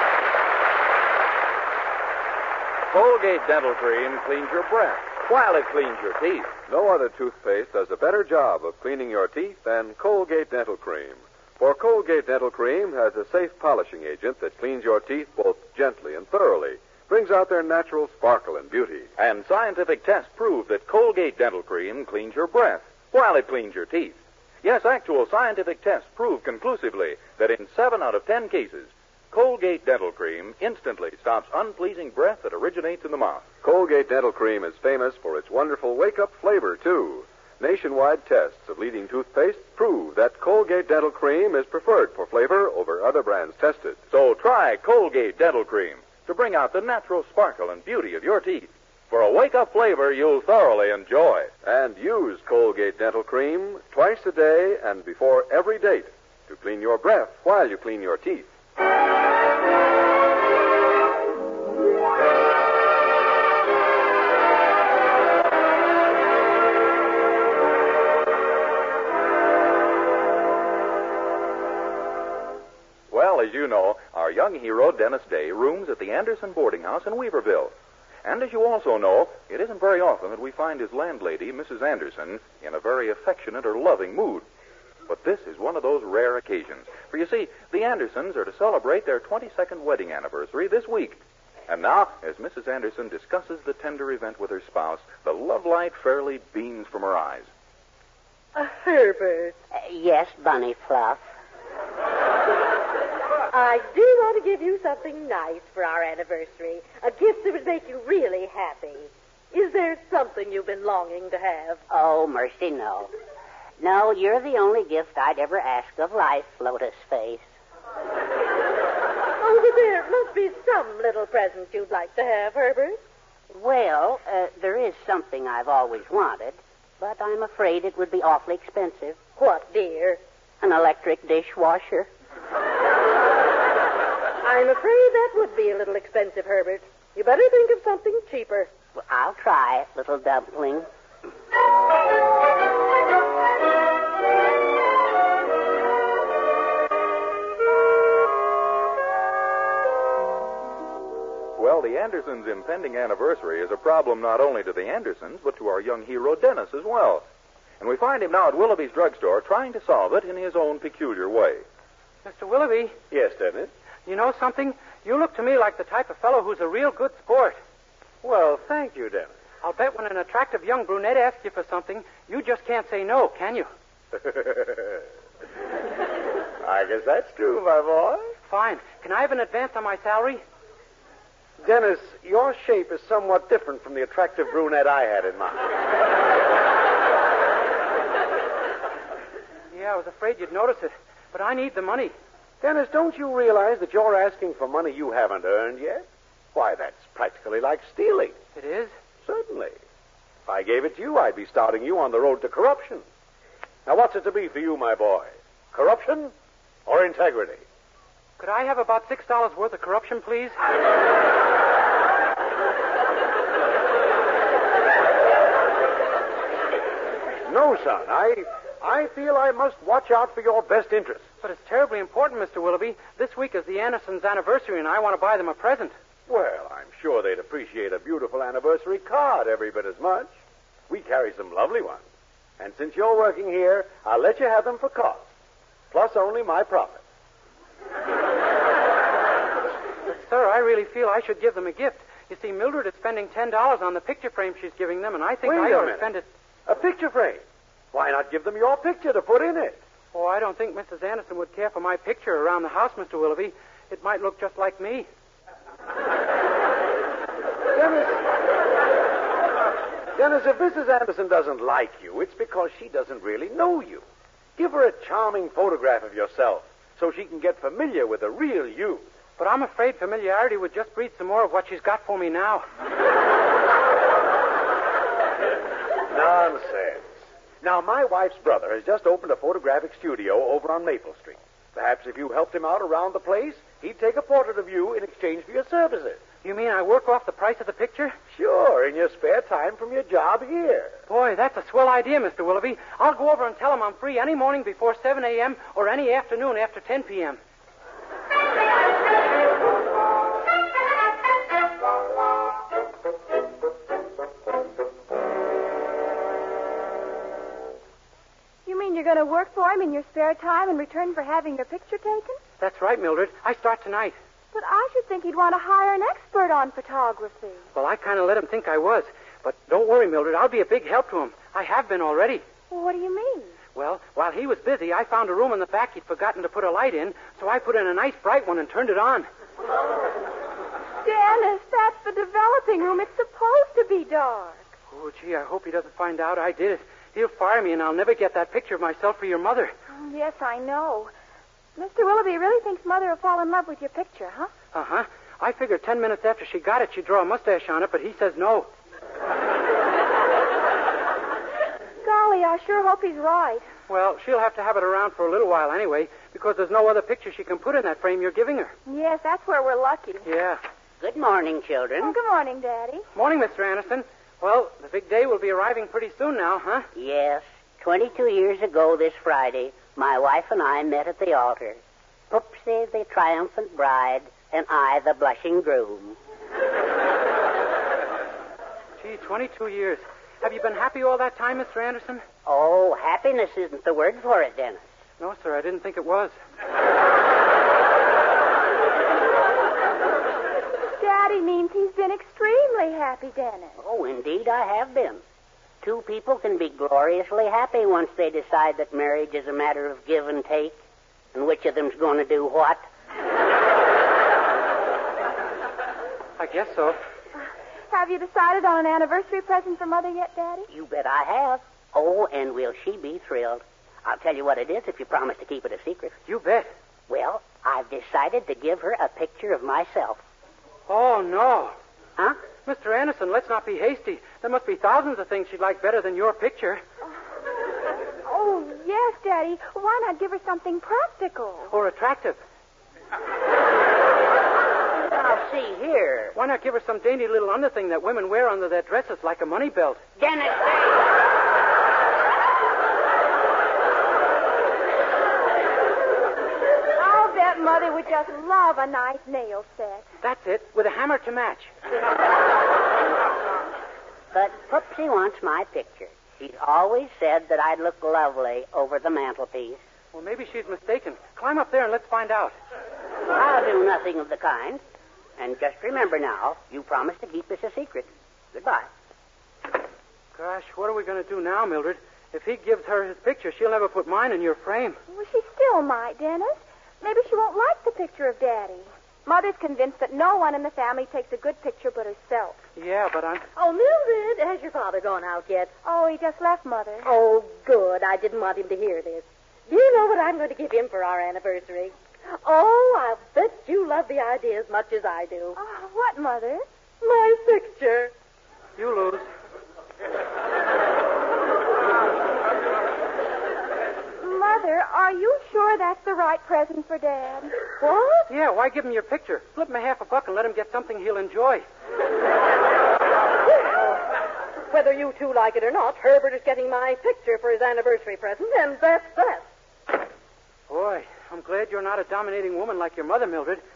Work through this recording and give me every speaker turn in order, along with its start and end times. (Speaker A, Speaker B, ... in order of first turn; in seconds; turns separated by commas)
Speaker A: 2.9-6.6, Speaker B: 6.7-19.1, Speaker A: 19.2-33.5, Speaker B: 33.6-44.0, Speaker A: 44.1-51.5, Speaker B: 51.6-58.5, Speaker A: 73.1-77.7, Speaker A: 78.2-84.5, Speaker A: 85.1-97.5, Speaker C: 98.5-99.5, Speaker D: 99.7-101.2, Speaker C: 103.5-111.8, Speaker D: 111.9-113.1, Speaker D: 113.8-117.5, Speaker C: 119.4-123.0, Speaker D: 123.5-129.2, Speaker C: 129.4-130.2, Speaker D: 130.6-132.1, Speaker C: 134.4-138.7, Speaker D: 139.0-140.9, Speaker A: 151.6-157.2, Speaker A: 157.8-161.7, Speaker E: 162.2-162.9, Speaker F: 163.1-163.7, Speaker E: 164.1-167.6, Speaker F: 168.2-169.3, Speaker E: 169.6-173.7, Speaker F: 174.1-175.0, Speaker F: 176.6-178.3, Speaker E: 178.5-180.4, Speaker F: 181.6-185.7, Speaker E: 189.7-192.1, Speaker F: 192.6-198.4, Speaker E: 198.6-198.9, Speaker F: 199.2-199.8, Speaker F: 200.5-203.1, Speaker F: 203.9-206.3, Speaker F: 206.9-207.6, Speaker E: 208.4-210.6, Speaker F: 217.5-221.3, Speaker E: 221.4-225.9, Speaker F: 226.3-230.3, Speaker F: 230.9-232.0, Speaker F: 232.6-235.3, Speaker F: 235.9-237.0, Speaker E: 240.1-246.3, Speaker F: 245.4-246.1, Speaker F: 246.7-249.8, Speaker E: 250.1-255.1, Speaker E: 257.8-258.1, Speaker F: 260.1-264.1, Speaker F: 264.6-269.1, Speaker E: 269.4-272.7, Speaker F: 276.1-286.2, Speaker E: 286.4-288.2, Speaker F: 288.3-291.0, Speaker E: 291.1-297.4, Speaker G: 308.7-312.4, Speaker E: 312.6-314.2, Speaker G: 314.5-317.6, Speaker E: 317.7-322.4, Speaker G: 322.7-323.6, Speaker E: 323.8-329.3, Speaker G: 331.0-334.7, Speaker E: 334.9-339.7, Speaker G: 339.9-341.1, Speaker G: 341.8-344.5, Speaker E: 344.7-348.7, Speaker G: 352.0-353.7, Speaker E: 353.9-358.7, Speaker G: 358.9-360.3, Speaker E: 360.2-360.6, Speaker D: 361.0-362.2, Speaker G: 362.0-363.1, Speaker E: 363.1-366.9, Speaker D: 366.9-376.2, Speaker E: 379.0-382.2, Speaker D: 382.5-384.9, Speaker E: 385.2-386.4, Speaker G: 391.0-393.8, Speaker D: 393.8-395.2, Speaker D: 395.8-400.8, Speaker D: 401.3-402.8, Speaker E: 406.4-407.0, Speaker G: 407.9-410.7, Speaker D: 410.7-416.2, Speaker E: 416.3-416.7, Speaker D: 417.1-420.2, Speaker E: 420.9-421.8, Speaker E: 422.6-426.8, Speaker G: 428.2-431.7, Speaker E: 431.7-432.4, Speaker D: 435.0-436.3, Speaker E: 436.4-440.0, Speaker D: 440.2-440.9, Speaker G: 447.0-450.1, Speaker E: 450.2-451.7, Speaker D: 454.3-459.8, Speaker E: 460.1-462.5, Speaker D: 463.3-464.8, Speaker D: 465.4-468.9, Speaker E: 470.3-475.0, Speaker G: 475.1-482.6, Speaker E: 482.8-483.5, Speaker C: 483.6-485.7, Speaker G: 485.8-487.1, Speaker C: 487.0-495.6, Speaker G: 495.6-496.7, Speaker C: 497.0-498.1, Speaker E: 498.8-499.3, Speaker G: 504.2-507.7, Speaker C: 507.8-508.3, Speaker E: 508.3-511.6, Speaker C: 514.7-519.5, Speaker E: 520.7-523.6